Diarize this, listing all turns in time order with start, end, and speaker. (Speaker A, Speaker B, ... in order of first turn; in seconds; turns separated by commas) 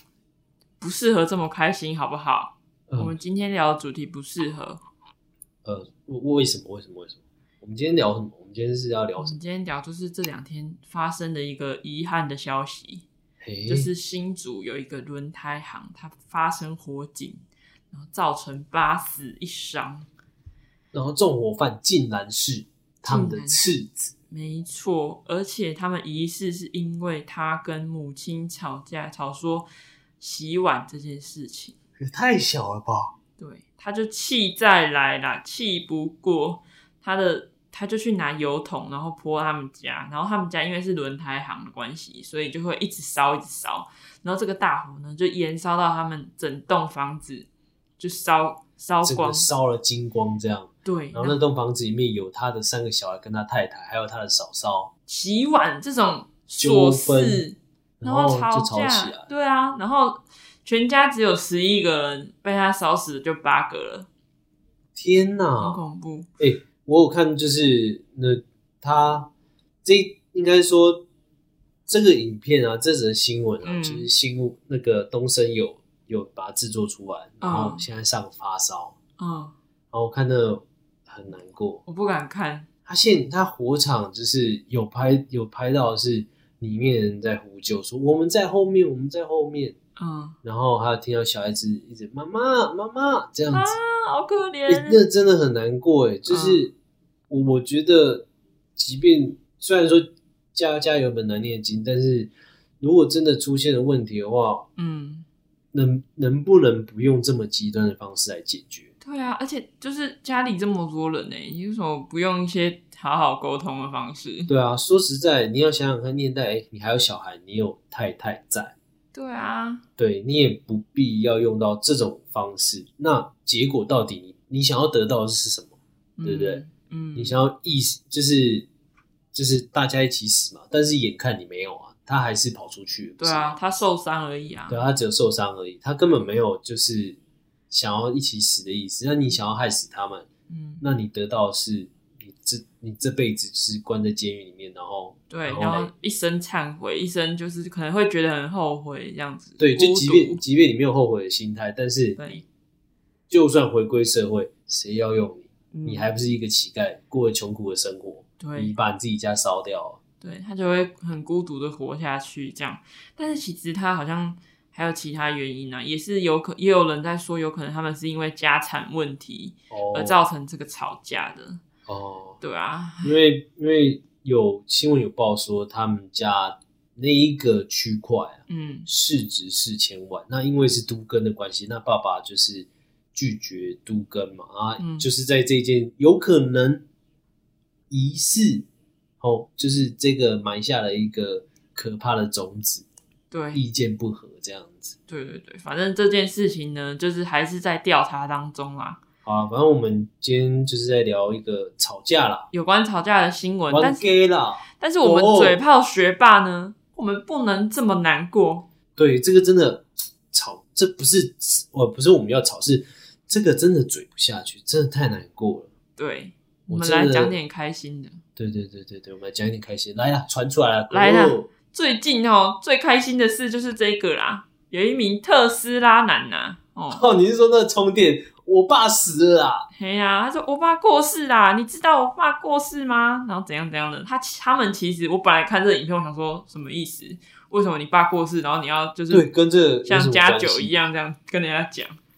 Speaker A: 0.8-4.8, Speaker B: 5.6-9.3, Speaker A: 9.2-13.0, Speaker B: 13.4-13.9, Speaker A: 13.7-17.4, Speaker A: 17.9-20.1, Speaker B: 20.9-24.1, Speaker A: 23.0-23.6, Speaker A: 24.3-29.7, Speaker A: 30.2-31.8, Speaker B: 32.0-33.1, Speaker A: 33.4-47.5, Speaker A: 48.0-49.5, Speaker B: 49.0-54.9, Speaker A: 50.8-51.4, Speaker A: 55.1-64.1, Speaker B: 56.6-57.4, Speaker B: 58.0-59.3, Speaker B: 65.0-65.8, Speaker A: 65.6-66.3, Speaker B: 66.4-69.3, Speaker B: 69.8-71.0, Speaker B: 71.9-78.9, Speaker A: 73.6-74.1, Speaker A: 77.4-77.8, Speaker A: 79.2-79.5, Speaker B: 79.9-81.8, Speaker A: 81.9-82.7, Speaker B: 82.8-89.7, Speaker A: 90.0-90.4, Speaker B: 90.4-93.8, Speaker A: 93.5-95.0, Speaker B: 94.7-96.7, Speaker A: 96.3-96.7, Speaker B: 97.3-102.3, Speaker B: 102.8-104.6, Speaker A: 104.8-105.2, Speaker B: 105.7-108.9, Speaker A: 109.0-114.5, Speaker B: 114.5-118.7, Speaker A: 119.1-119.8, Speaker B: 120.0-125.7, Speaker A: 126.2-127.4, Speaker B: 126.2-126.6, Speaker B: 127.2-128.7, Speaker B: 129.3-133.6, Speaker A: 133.2-134.8, Speaker B: 134.7-137.2, Speaker B: 137.7-140.3, Speaker A: 140.5-140.8, Speaker B: 140.8-145.9, Speaker A: 145.3-150.4, Speaker B: 149.6-152.2, Speaker A: 152.2-152.4, Speaker B: 153.3-160.0, Speaker A: 155.7-156.1, Speaker A: 158.4-158.7, Speaker A: 160.2-171.6, Speaker B: 169.7-170.2, Speaker B: 171.9-172.4, Speaker A: 172.4-173.2, Speaker B: 173.0-186.8, Speaker A: 178.5-178.9, Speaker A: 184.8-185.1, Speaker B: 187.9-188.7, Speaker B: 189.2-192.8, Speaker A: 193.3-193.6, Speaker B: 193.5-194.9, Speaker A: 195.1-199.0, Speaker B: 199.2-202.5, Speaker A: 202.5-204.1, Speaker B: 203.7-205.6, Speaker A: 204.7-208.7, Speaker B: 208.9-215.7, Speaker A: 216.0-218.2, Speaker B: 216.7-217.3, Speaker B: 218.3-221.5, Speaker A: 220.9-227.0, Speaker B: 226.9-229.7, Speaker A: 229.8-239.3, Speaker B: 239.1-240.7, Speaker A: 239.8-242.0